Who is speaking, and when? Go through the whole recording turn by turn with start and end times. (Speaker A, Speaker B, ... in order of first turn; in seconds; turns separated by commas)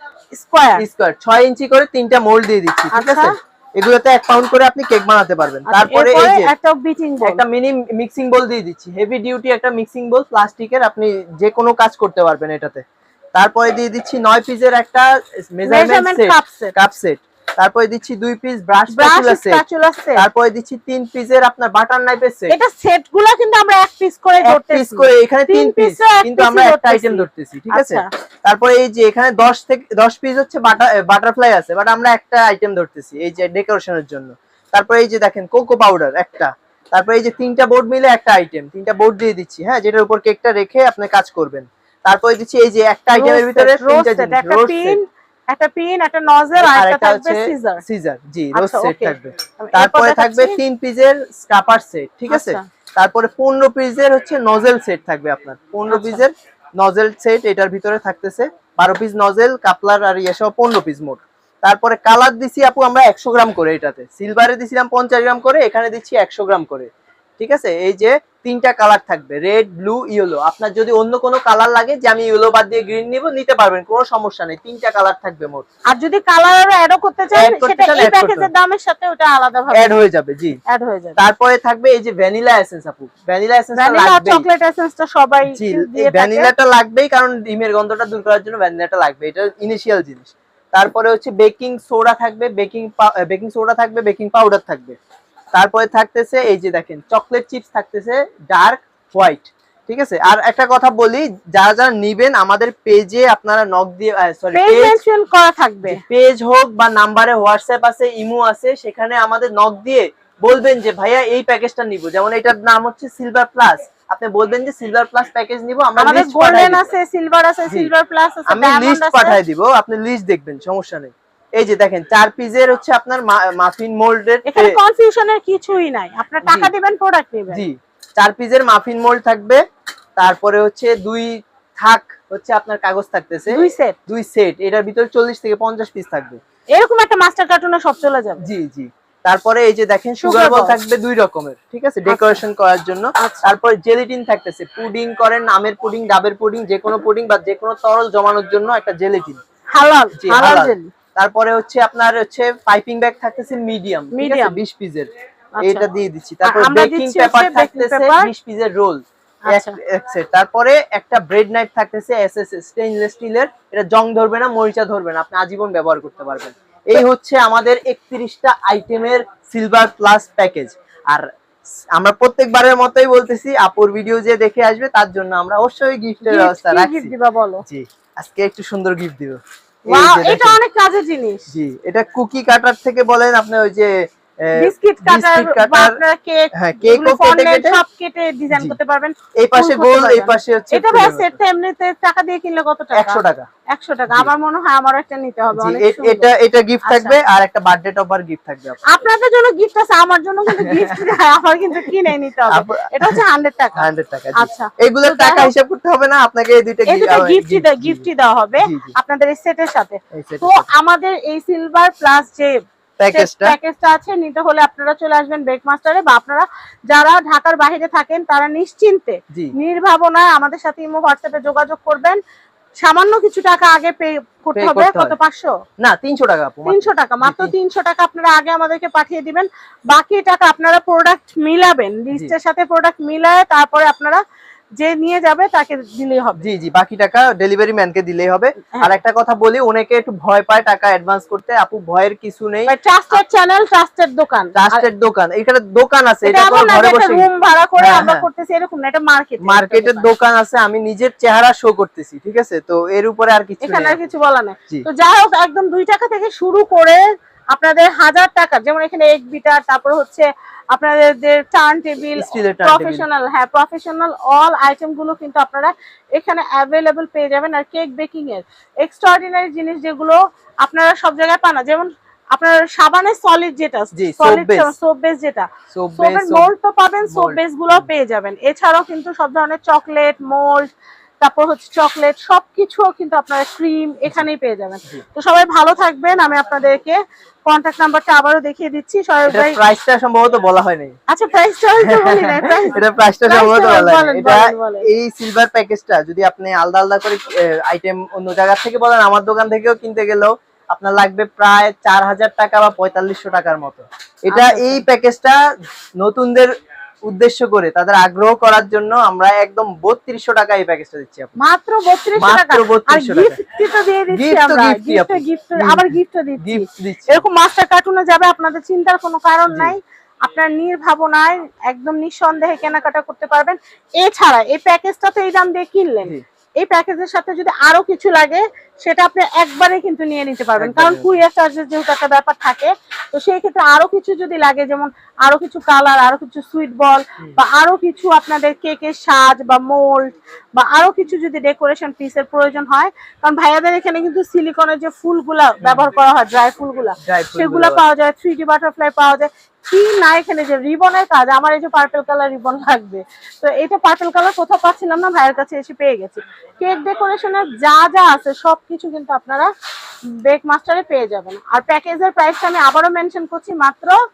Speaker A: 0.3-0.8, Speaker B: 0.8-6.5, Speaker A: 2.9-3.4, Speaker A: 5.7-7.4, Speaker B: 7.2-19.6, Speaker A: 15.7-16.7, Speaker A: 18.9-20.2, Speaker B: 20.1-22.5, Speaker A: 22.5-28.1, Speaker B: 24.4-45.0, Speaker A: 43.1-47.8, Speaker B: 46.6-75.7, Speaker A: 48.5-50.6, Speaker A: 52.3-52.6, Speaker A: 55.9-56.2, Speaker A: 75.9-80.0, Speaker B: 77.3-78.5, Speaker B: 79.7-80.6, Speaker A: 80.7-81.2, Speaker B: 81.2-84.5, Speaker A: 83.7-86.5, Speaker B: 85.5-95.0, Speaker B: 95.5-105.0, Speaker A: 104.5-106.0, Speaker B: 105.8-116.9, Speaker A: 116.0-119.4, Speaker B: 118.5-124.8, Speaker A: 124.5-127.6, Speaker B: 126.4-126.7, Speaker B: 127.5-129.6, Speaker B: 130.2-136.4, Speaker A: 133.5-134.0, Speaker A: 136.8-138.4, Speaker B: 138.4-149.4, Speaker A: 140.2-140.8, Speaker A: 142.1-142.4, Speaker A: 149.7-150.9, Speaker B: 150.2-155.1, Speaker A: 154.1-154.6, Speaker A: 155.6-155.9, Speaker B: 155.6-171.3, Speaker A: 156.4-158.3, Speaker A: 159.5-159.8, Speaker B: 171.9-177.1, Speaker A: 176.2-177.6, Speaker B: 177.6-180.6, Speaker A: 179.9-181.4, Speaker B: 181.5-186.0, Speaker A: 184.6-196.3, Speaker B: 186.5-187.8, Speaker B: 188.5-188.8, Speaker B: 189.4-191.3, Speaker B: 192.9-193.5, Speaker B: 195.5-198.8, Speaker A: 196.8-197.2, Speaker A: 198.9-205.5, Speaker B: 200.6-201.1, Speaker B: 202.5-203.2, Speaker B: 203.8-208.1, Speaker A: 206.9-222.2, Speaker B: 208.6-208.9, Speaker B: 210.1-210.7, Speaker B: 213.0-213.6, Speaker A: 222.8-225.5, Speaker B: 224.5-225.2, Speaker B: 225.8-227.5, Speaker A: 226.7-234.2, Speaker A: 234.8-236.4, Speaker B: 236.4-243.2, Speaker A: 242.7-244.8, Speaker B: 244.5-248.3, Speaker A: 246.2-250.1, Speaker B: 249.4-254.0, Speaker A: 253.6-289.6, Speaker B: 262.1-263.1, Speaker B: 273.9-274.7, Speaker B: 275.7-276.5, Speaker B: 277.1-277.9, Speaker B: 289.3-290.9, Speaker A: 291.1-294.9, Speaker B: 291.8-305.4, Speaker A: 304.3-304.8, Speaker B: 306.0-306.5, Speaker B: 307.1-311.3, Speaker A: 311.4-359.5, Speaker B: 312.2-313.4, Speaker B: 314.1-317.2, Speaker B: 319.5-319.8, Speaker B: 330.6-331.2, Speaker B: 345.6-345.9, Speaker B: 347.0-347.8, Speaker A: 360.1-363.9